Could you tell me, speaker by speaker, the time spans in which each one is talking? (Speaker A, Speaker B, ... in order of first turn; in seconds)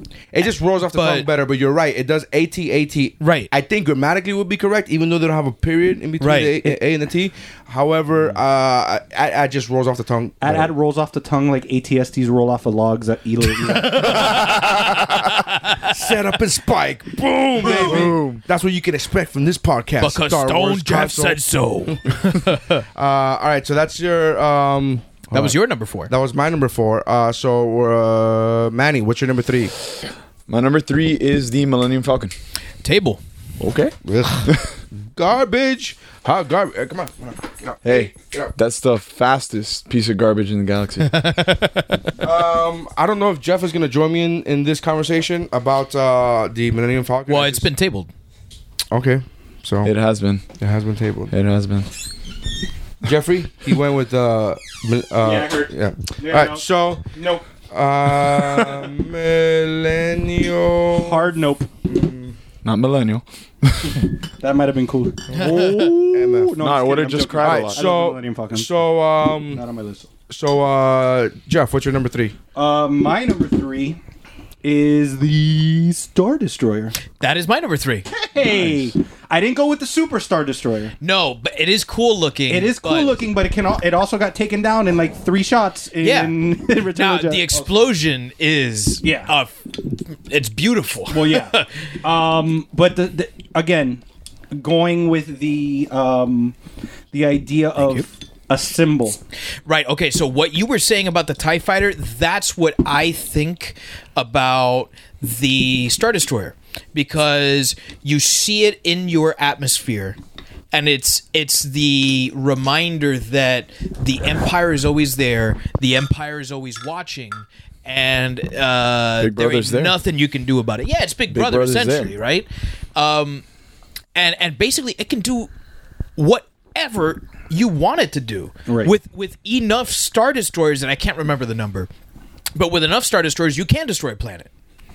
Speaker A: 0.3-10.7, 13.9-15.2, 15.8-22.4, 22.9-25.6, 26.1-29.7, 34.0-38.5, 42.2-47.7, 48.9-49.9, 50.6-51.3, 53.0-57.0, 57.7-61.3, 61.9-62.3, 65.3-66.5, 67.4-69.6, 70.3-72.3
Speaker B: 0.4-1.3, 3.2-3.5, 6.2-6.7, 13.6-15.9, 20.0-22.8, 25.3-26.1, 32.8-33.2, 41.0-42.1, 47.3-48.1, 65.4-65.9, 77.2-78.1, 81.0-83.2, 86.0-91.8, 97.8-98.0, 99.7-110.2, 110.7-123.4, 124.1-125.5, 126.2-131.9, 132.6-134.5
Speaker C: 10.4-14.3, 55.2-57.4, 60.9-61.7, 64.4-68.7, 69.5-70.1, 72.5-74.0, 74.6-77.0, 78.1-80.9, 82.5-87.7, 89.0-89.3, 91.1-96.5, 97.1-99.2, 128.7-128.9
Speaker D: 17.6-18.4, 30.5-32.3, 33.6-34.7, 37.8-41.2, 49.8-50.4, 51.3-51.9, 62.6-64.0, 66.6-67.8, 119.2-120.0, 121.3-122.1